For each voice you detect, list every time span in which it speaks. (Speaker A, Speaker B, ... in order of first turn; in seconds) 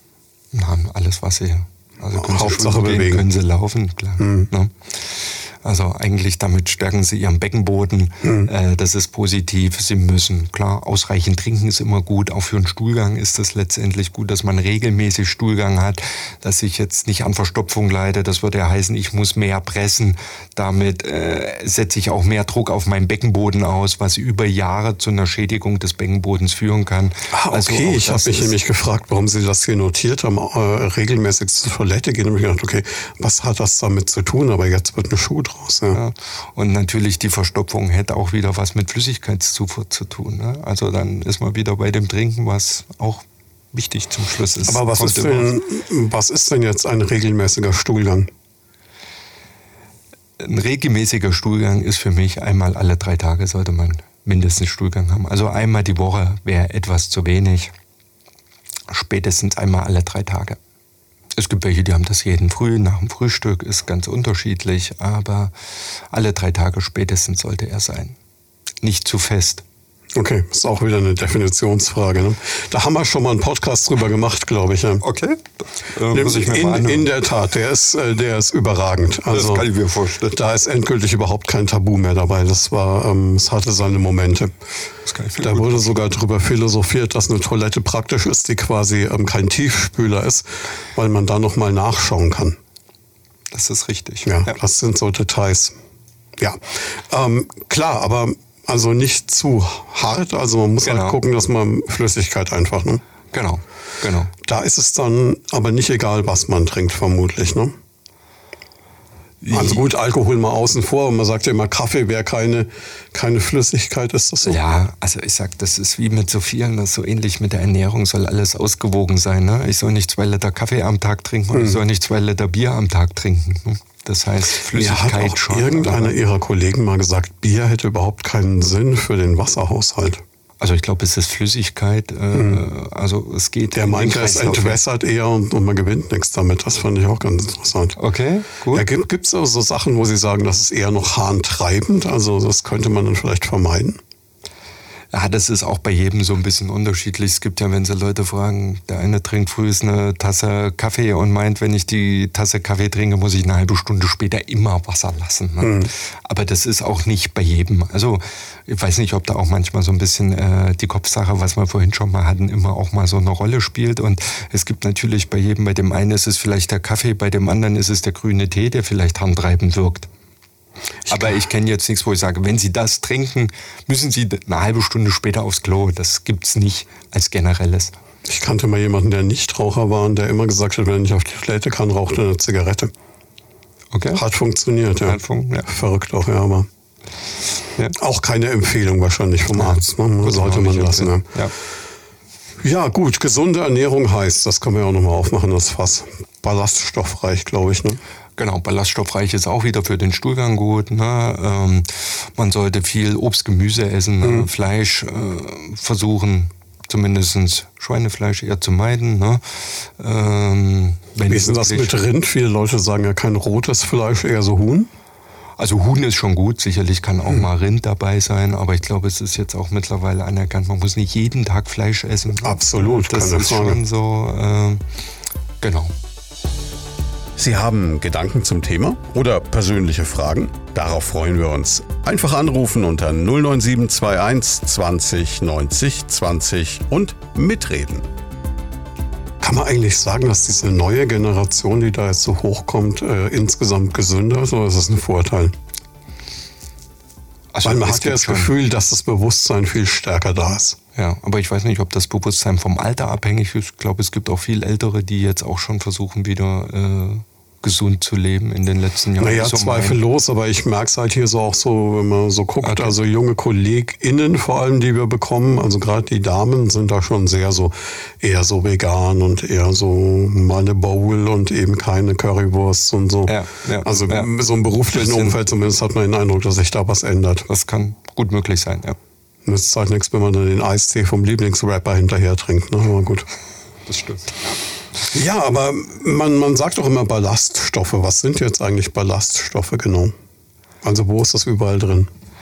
Speaker A: 0.5-4.7, 5.6-28.5, 35.9-45.5, 50.4-57.7, 58.9-60.6, 61.4-65.5, 66.1-68.2, 68.8-69.6, 75.0-77.1, 79.3-80.4, 85.0-86.0, 93.5-94.5, 100.8-101.2, 103.3-104.3, 109.4-109.8, 114.4-126.1, 130.6-134.8, 138.0-138.8, 145.1-170.1, 171.1-177.9, 183.9-184.2, 185.0-185.7, 189.5-191.5, 198.4-212.0, 215.6-224.8, 225.6-225.9, 247.5-248.5, 250.9-260.0, 262.6-262.9, 273.3-274.3, 274.9-275.3, 277.5-279.0, 283.9-284.4
Speaker B: 2.1-3.2, 4.2-4.5, 8.2-8.5, 27.3-36.0, 44.6-48.3, 70.1-75.0, 76.1-79.7, 80.3-84.5, 85.4-92.6, 94.2-95.7, 96.4-103.0, 104.4-107.7, 109.5-114.6, 121.5-121.8, 124.7-130.2, 132.3-132.7, 133.7-138.0, 138.7-144.0, 155.6-155.9, 171.1-171.4, 178.2-182.9, 184.1-186.7, 187.9-191.3, 192.6-198.0, 204.2-204.5, 211.3-214.9, 222.4-223.8, 239.4-245.6, 247.6-250.8, 259.2-277.5, 279.4-283.3, 285.1-290.1, 290.8-292.1
Speaker C: 227.4-238.0